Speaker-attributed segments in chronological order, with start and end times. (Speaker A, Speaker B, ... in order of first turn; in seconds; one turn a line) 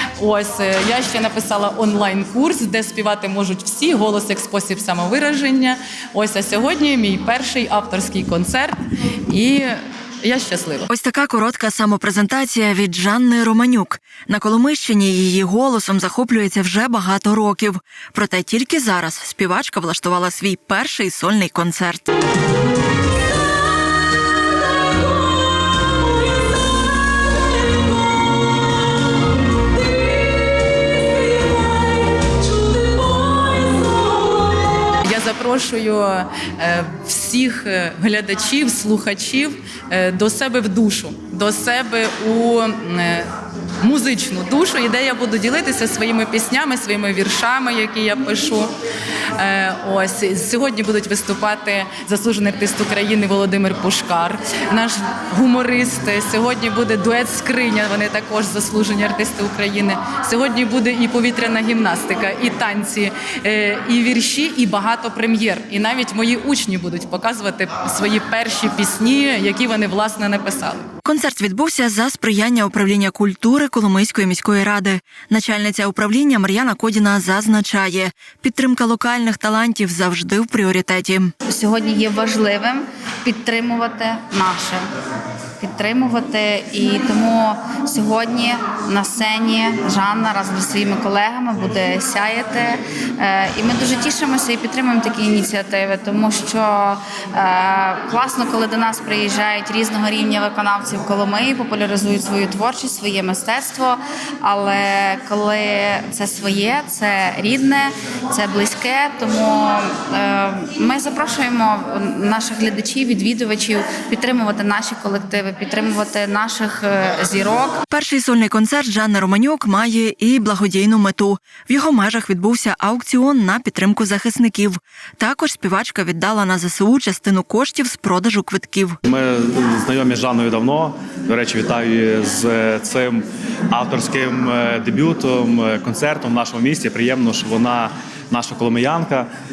Speaker A: 0.2-8.8
Speaker A: 9.3-10.9
Speaker B: 10.9-22.1
Speaker A: 32.2-34.0
Speaker A: 35.0-43.3
Speaker A: 43.8-48.7
Speaker A: 49.4-70.8
Speaker B: 71.0-81.3
Speaker C: 81.5-84.8
Speaker C: 85.6-117.8
Speaker B: 117.9-129.0
Speaker D: 129.1-139.3